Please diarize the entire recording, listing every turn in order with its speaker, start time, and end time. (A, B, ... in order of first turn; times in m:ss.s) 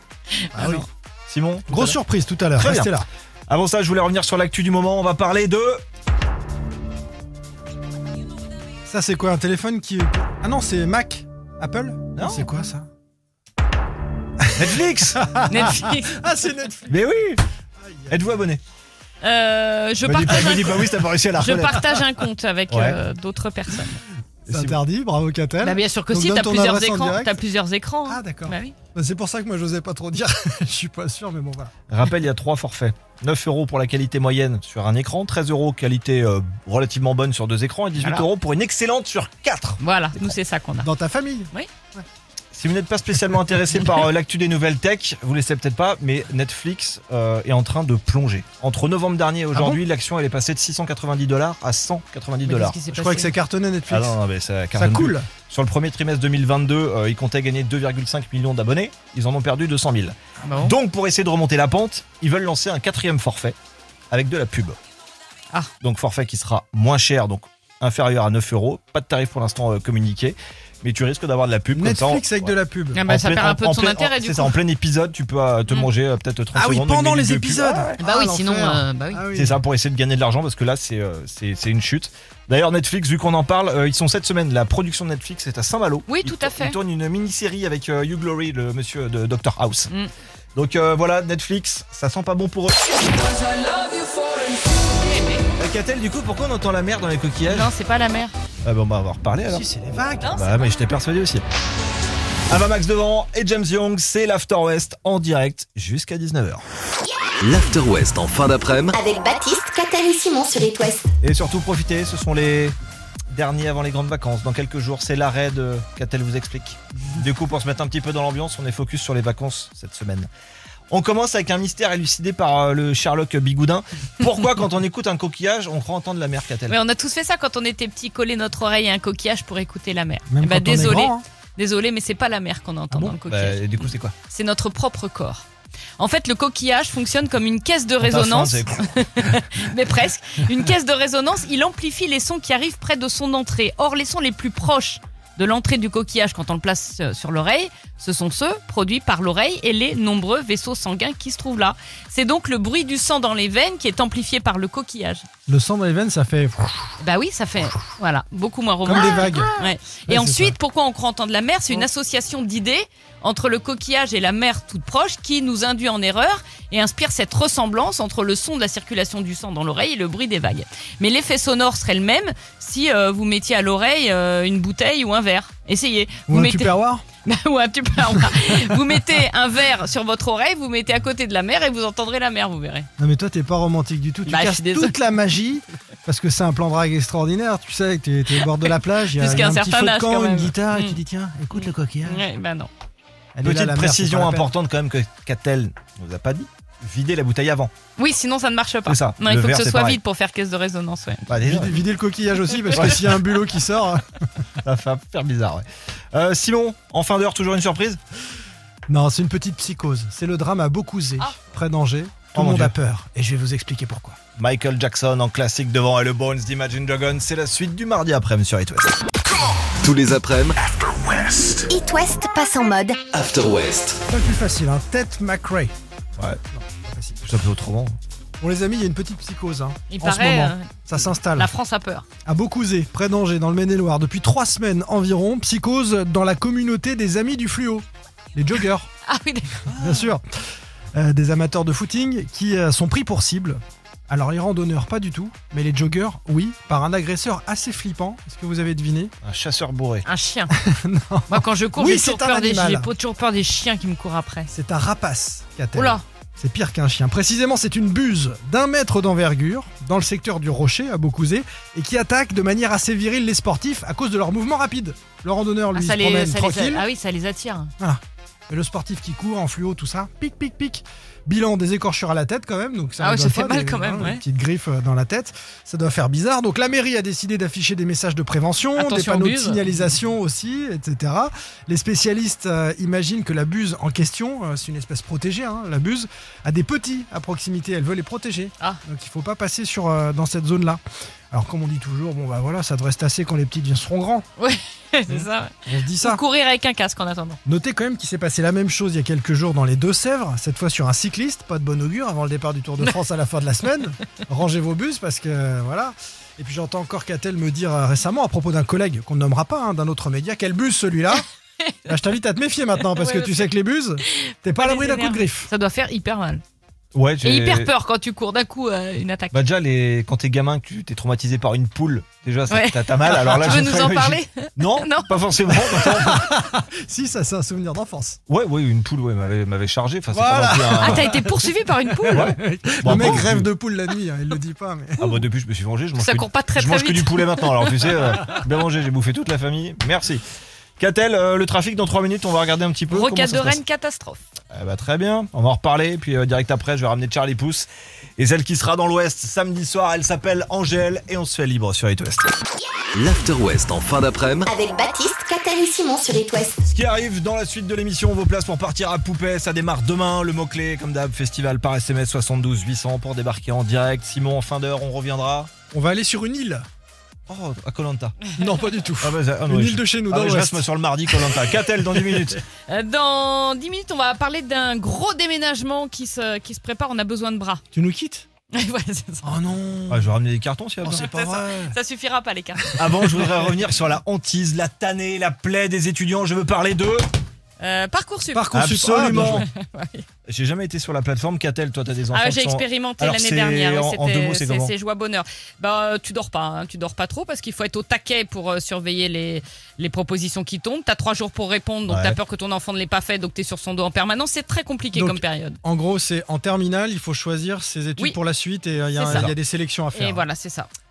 0:00.4-0:00.9 A
0:00.5-0:00.8 B
0:01.3-0:02.0 C
0:01.7-0:03.1 B
0:02.6-0:02.9 C
0:03.5-0:05.8 C
0:08.9-0:12.9 B
0:12.2-0:12.5 C
0:14.5-0:17.1 B
0:14.6-0:15.2 C
0:15.5-0:16.3 A
0:16.9-0:17.4 C
0:17.8-0:18.3 B
0:18.1-0:18.6 C
0:19.2-0:24.0 A
0:20.0-0:21.9 C
0:21.7-0:22.1 B
0:22.7-0:23.0 C
0:24.5-0:24.8 C
0:24.5-0:27.4 B
0:25.6-0:28.8 A
0:28.1-0:31.7 B
0:31.9-0:40.3 C
0:38.0-0:38.3 A
0:39.8-0:40.9 A
0:40.8-0:42.0 B
0:42.5-0:52.8 C
0:49.5-0:49.8 B
0:52.5-0:53.3 A
0:52.9-0:54.2 B
0:53.9-1:03.6 C
0:54.7-0:55.3 B
1:00.4-1:00.8 A
1:04.1-1:04.8 C
1:05.8-1:12.5 C
1:11.7-1:13.0 B
1:12.9-1:14.6 A
1:13.0-1:18.0 C
1:16.5-1:19.6 B
1:18.0-1:19.2 A
1:19.3-1:29.9 C
1:26.1-1:26.8 A
1:30.6-1:32.9 C
1:33.2-1:35.4 A
1:35.6-1:37.7 C
1:37.4-1:38.4 A
1:38.6-1:39.6 C
1:39.4-1:40.3 B
1:40.2-1:40.8 A
1:40.3-1:41.4 C
1:42.5-1:46.6 C
1:47.4-1:49.0 D
1:48.9-1:51.1 E
1:51.2-1:52.8 C
1:53.3-2:00.3 C
2:00.9-2:06.8 C
2:06.7-2:15.5 A
2:10.3-2:11.2 B
2:13.3-2:14.1 C
2:16.0-2:35.3 A
2:18.0-2:18.8 C
2:35.5-2:37.0 B
2:37.0-2:56.7 A
2:38.8-2:40.6 B
2:56.3-2:57.0 B
2:57.2-3:02.9 A
3:03.0-3:12.3 B
3:04.3-3:05.0 A
3:09.1-3:11.0 A
3:11.5-3:12.7 A
3:13.4-3:14.5 B
3:13.4-3:17.7 C
3:18.0-3:21.3 A
3:18.9-3:20.0 C
3:21.3-3:21.8 C
3:21.5-3:24.0 B
3:22.8-3:23.0 C
3:24.6-3:28.0 C
3:28.9-3:34.2 B
3:32.3-3:32.7 C
3:34.4-3:39.0 C
3:39.8-3:41.7 D
3:41.7-3:43.0 E
3:43.1-3:44.0 D
3:44.1-3:45.7 B
3:46.5-3:47.2 B
3:47.2-3:48.0 C
3:48.4-3:51.5 B
3:49.9-3:52.0 A
3:52.3-3:58.9 B
3:59.1-3:59.7 A
3:59.7-4:00.1 C
3:59.7-4:00.2 B
4:00.9-4:09.1 B
4:09.2-4:10.0 C
4:10.0-4:10.6 A
4:10.5-4:12.9 B
4:11.3-4:14.5 A
4:14.5-4:26.8 B
4:15.7-4:16.0 A
4:25.7-4:27.7 A
4:27.8-4:50.8 B
4:33.0-4:34.2 A
4:38.8-4:39.6 A
4:51.3-4:54.2 B
4:54.4-4:57.4 A
4:55.1-4:56.2 B
4:57.4-5:11.3 B
5:11.9-5:15.5 B
5:12.9-5:13.5 A
5:14.1-5:16.4 A
5:16.9-5:17.7 C
5:17.2-5:19.4 A
5:19.3-5:26.2 C
5:22.5-5:25.2 A
5:25.6-5:28.2 B
5:28.3-5:31.1 C
5:30.1-5:31.3 B
5:30.8-5:32.3 A
5:32.0-5:35.2 B
5:32.1-5:33.5 C
5:32.9-5:33.2 A
5:35.0-5:40.2 C
5:36.0-5:38.4 A
5:40.8-5:43.6 C
5:42.9-5:44.2 A
5:44.5-5:52.3 C
5:53.0-5:54.5 D
5:54.5-5:56.6 E
5:56.6-6:05.5 C
6:05.7-6:06.7 B
6:07.3-6:08.3 C
6:08.4-6:10.7 B
6:09.0-6:12.4 C
6:12.7-6:17.6 A
6:17.7-6:18.3 B
6:18.5-6:19.4 A
6:19.2-6:20.1 B
6:19.9-6:21.1 C
6:20.8-6:21.8 B
6:20.9-6:23.0 A
6:22.8-6:23.1 B
6:22.8-6:27.1 C
6:27.6-6:28.6 A
6:28.3-6:29.4 B
6:28.5-6:29.4 C
6:29.1-6:30.0 A
6:30.3-6:34.7 C
6:32.1-6:45.6 A
6:41.9-6:42.2 C
6:44.9-6:50.2 B
6:48.9-6:49.3 A
6:49.1-6:49.3 C
6:49.9-6:50.7 A